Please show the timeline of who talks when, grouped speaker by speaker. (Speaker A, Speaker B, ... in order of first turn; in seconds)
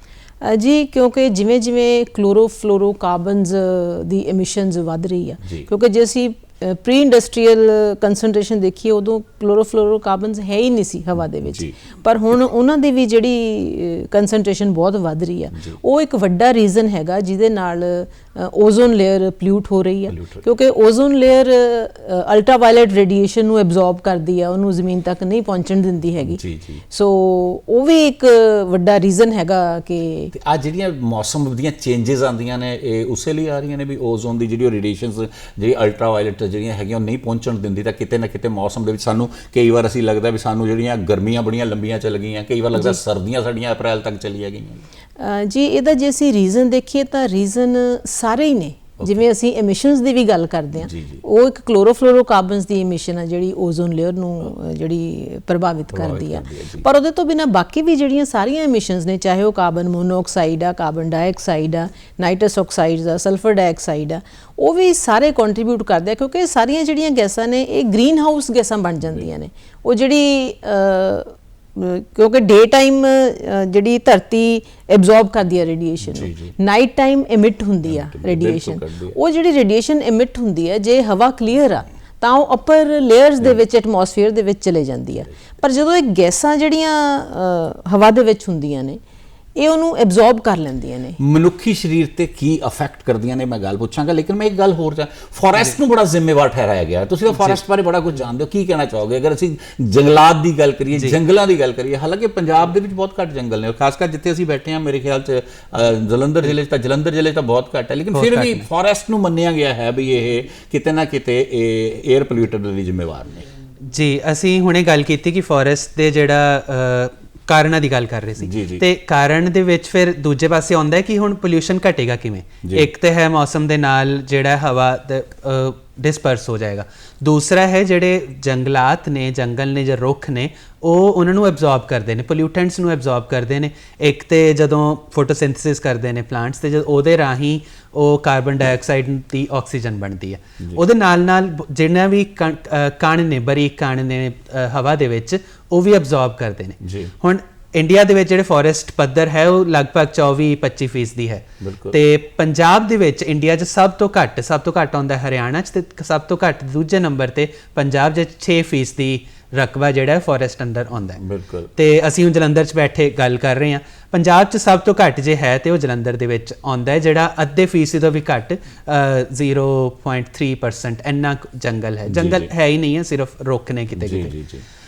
Speaker A: 0.4-30.3, 45.2-89.0, 89.6-91.2
Speaker B: 5.4-5.7, 11.5-11.8, 20.1-20.5, 26.2-26.8, 30.3-44.8, 50.8-51.2, 55.9-56.9, 76.1-76.5, 77.9-79.2, 91.2-113.5, 118.4-118.8, 146.8-147.1, 151.6-152.0, 161.2-161.7, 172.1-172.5, 173.9-174.6
Speaker C: 108.1-108.7, 113.8-161.2, 161.8-174.3